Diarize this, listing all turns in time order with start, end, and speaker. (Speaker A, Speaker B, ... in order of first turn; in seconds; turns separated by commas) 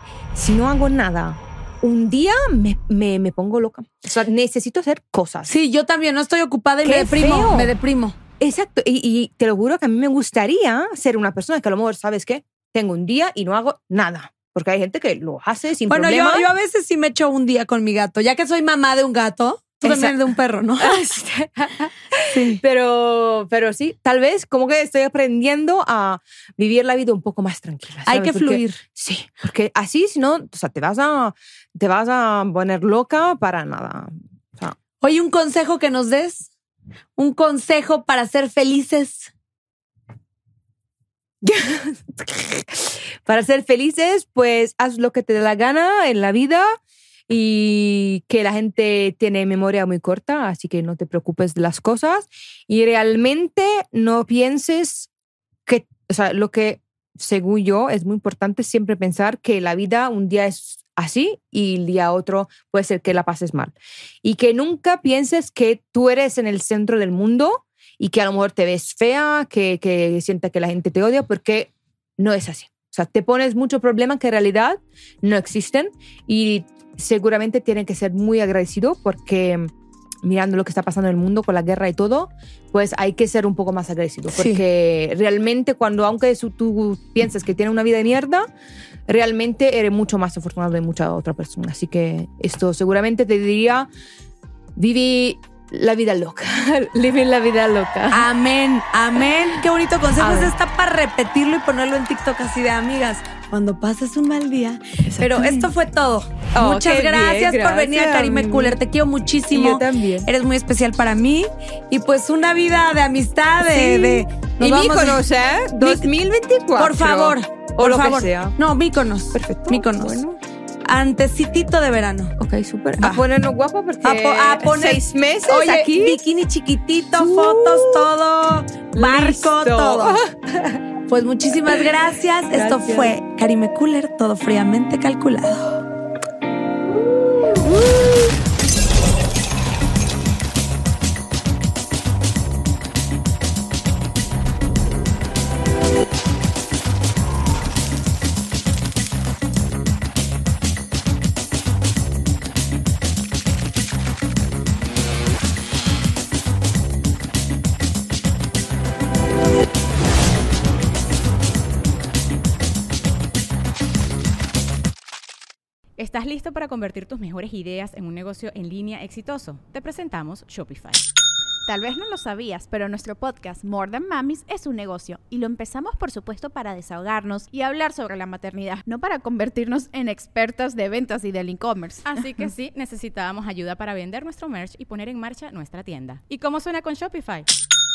Speaker A: 0.3-5.5, Speaker B: 5.5-8.2, Speaker A: 6.8-7.7, Speaker A: 8.4-16.5, Speaker B: 15.9-21.0, Speaker A: 19.8-20.2, Speaker A: 20.8-34.8, Speaker B: 22.3-22.6, Speaker B: 28.1-28.8, Speaker B: 35.0-36.5, Speaker B: 37.2-39.3, Speaker A: 41.4-46.8, Speaker A: 47.3-55.1, Speaker A: 55.6-79.7, Speaker A: 80.2-88.5, Speaker B: 84.3-84.6, Speaker A: 89.1-93.9, Speaker A: 94.8-98.2, Speaker B: 98.1-115.2, Speaker A: 100.2-100.5, Speaker A: 105.0-105.7, Speaker A: 106.5-108.8, Speaker A: 109.5-110.3, Speaker A: 113.7-118.5, Speaker B: 115.8-116.0, Speaker B: 116.8-120.2, Speaker A: 119.3-120.4, Speaker B: 120.8-122.3, Speaker A: 122.4-126.2, Speaker B: 124.0-130.2, Speaker A: 127.2-128.1, Speaker A: 128.9-130.8, Speaker B: 131.1-135.8, Speaker A: 132.5-133.1, Speaker A: 137.1-138.3, Speaker C: 166.0-171.0, Speaker D: 171.7-182.2, Speaker C: 182.1-187.5